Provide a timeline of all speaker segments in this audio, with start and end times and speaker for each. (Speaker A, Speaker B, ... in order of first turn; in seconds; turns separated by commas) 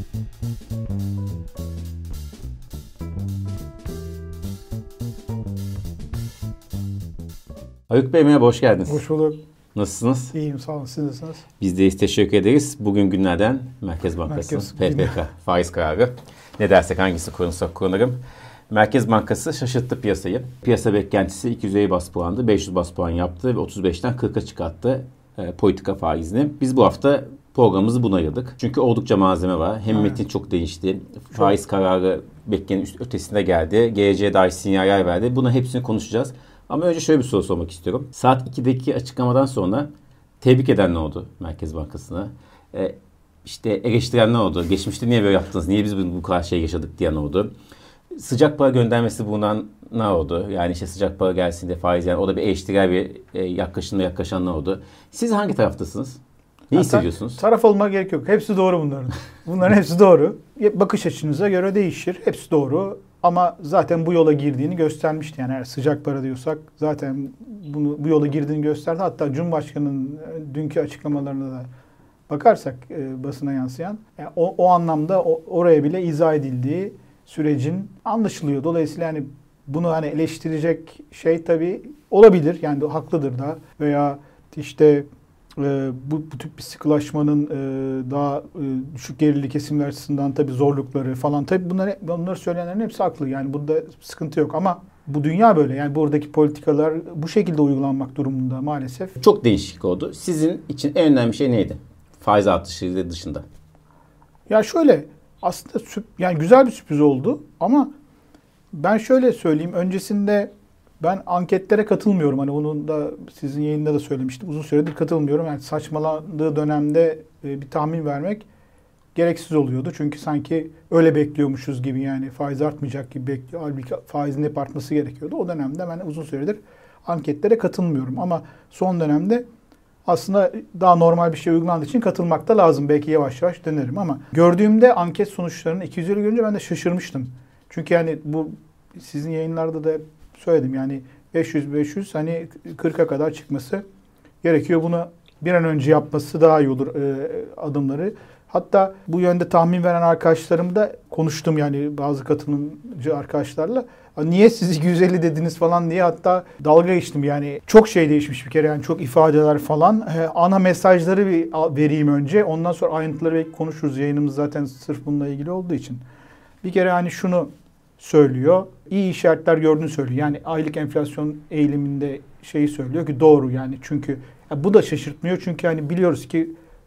Speaker A: 7.9-9.1, Speaker B: 8.9-9.4, Speaker A: 9.8-10.3, Speaker B: 10.3-11.4, Speaker A: 11.6-18.2, Speaker B: 14.3-15.2, Speaker A: 18.7-39.9, Speaker B: 29.9-30.2, Speaker A: 40.4-47.5, Speaker A: 48.1-57.4, Speaker B: 56.7-71.7, Speaker B: 72.3-85.1, Speaker B: 85.6-99.2, Speaker A: 99.2-103.5, Speaker B: 104.5-107.9, Speaker B: 108.7-118.5, Speaker B: 119.2-129.4, Speaker B: 130.1-143.8, Speaker B: 144.4-166.0, Speaker B: 166.6-176.5